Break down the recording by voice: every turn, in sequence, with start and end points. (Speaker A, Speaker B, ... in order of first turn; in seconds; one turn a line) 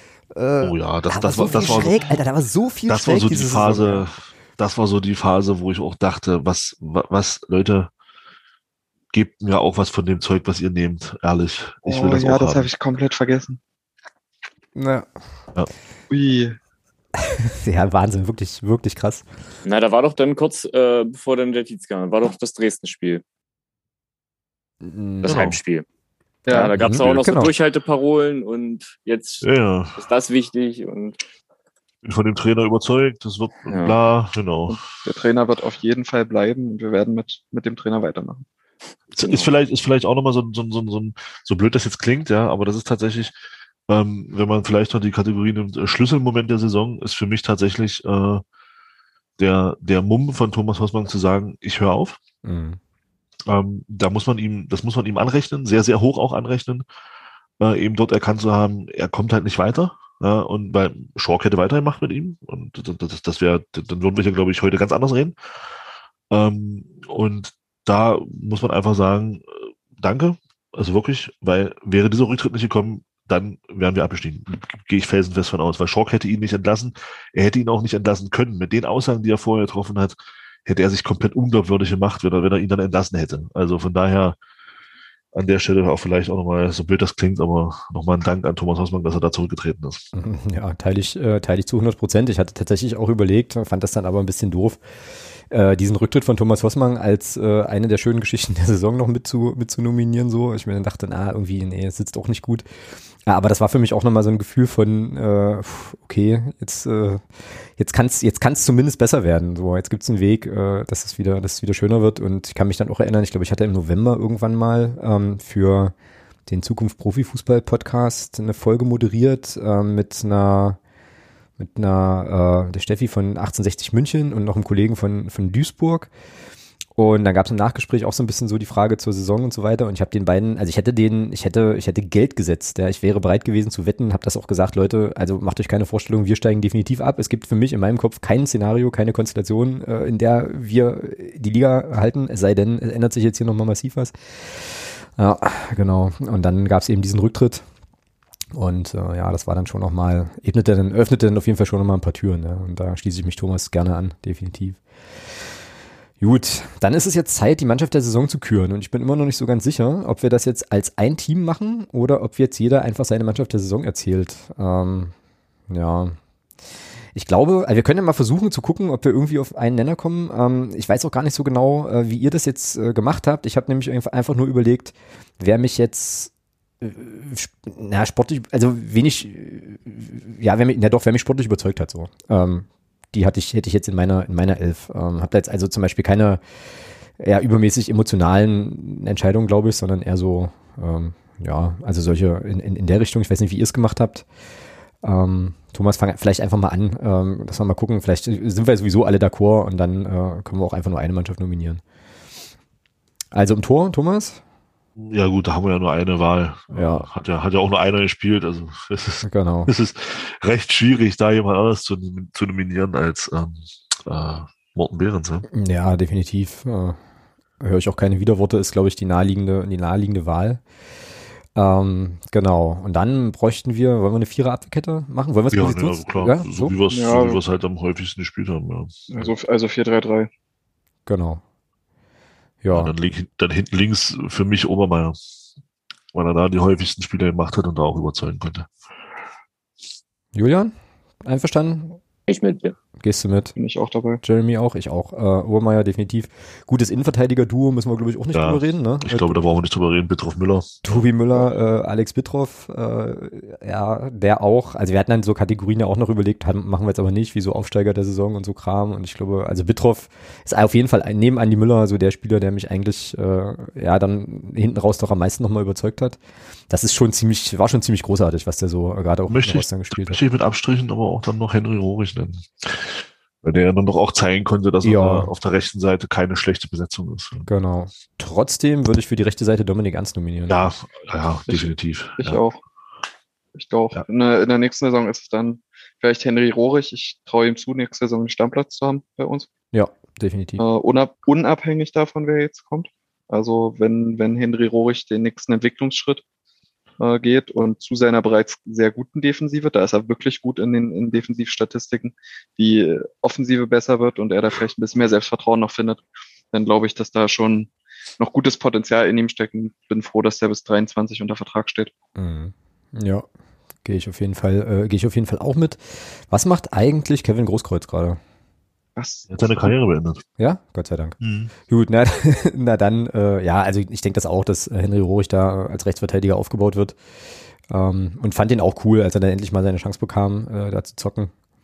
Speaker A: 0.3-4.1
Speaker B: 0.6-2.2
Speaker B: 2.9-7.9
Speaker B: 9.1-12.7
Speaker C: 11.9-13.6
Speaker A: 14.8-15.1
Speaker C: 16.1-16.6
Speaker A: 17.2-19.3
Speaker D: 19.6-23.2
Speaker A: 24.8-25.4
Speaker D: 25.2-25.9
Speaker B: 25.3-25.6
Speaker C: 26.5-26.7
Speaker D: 26.5-31.2
Speaker B: 26.8-27.5
Speaker A: 26.8-27.5
Speaker B: 29.4-30.0
Speaker B: 32.0-34.8
Speaker D: 33.7-34.0
Speaker C: 34.7-38.5
Speaker B: 39.1-43.3
Speaker D: 39.2-39.5
Speaker B: 43.9-48.4
Speaker B: 49.4-52.2
Speaker A: 52.4-52.8
Speaker B: 53.5-56.8
Speaker B: 57.6-65.3
Speaker B: 66.3-84.4
Speaker B: 85.3-90.1
Speaker A: 90.1-102.7
Speaker A: 103.3-115.9
Speaker A: 116.5-120.8
Speaker A: 121.6-126.1
Speaker A: 127.0-147.7
Speaker A: 148.5-154.8
Speaker A: 156.2-165.1
Speaker A: 165.7-166.2
Speaker A: 167.1-186.4
Speaker A: 187.2-194.3
Speaker A: 195.0-201.8
Speaker A: 203.3-204.4
Speaker B: 205.0-215.5
Speaker A: 206.7-207.1
Speaker A: 209.2-209.7
Speaker A: 215.5-217.0
Speaker A: 217.6-220.6
Speaker A: 221.6-226.7
Speaker B: 225.5-229.3
Speaker C: 226.9-227.4
Speaker C: 229.1-230.3
Speaker A: 231.1-231.4
Speaker A: 232.6-232.9
Speaker B: 232.7-235.2
Speaker B: 236.1-238.7
Speaker A: 240.3-242.0
Speaker D: 242.3-242.8
Speaker A: 243.0-243.6
Speaker C: 243.6-244.2
Speaker A: 244.2-249.4
Speaker B: 248.3-251.0
Speaker A: 250.8-266.2
Speaker A: 266.7-270.2
Speaker B: 269.3-277.5
Speaker A: 274.8-275.3
Speaker A: 277.5-280.7
Speaker B: 280.5-282.4
Speaker C: 281.5-282.6
Speaker C: 283.6-289.5
Speaker A: 289.7-290.6
Speaker C: 290.6-296.2
Speaker C: 297.0-311.9
Speaker A: 312.2-313.3
Speaker A: 313.8-318.2
Speaker C: 319.0-319.7
Speaker B: 319.3-320.2
Speaker A: 320.4-321.2
Speaker B: 321.2-321.5
Speaker A: 321.7-327.0
Speaker A: 327.7-331.3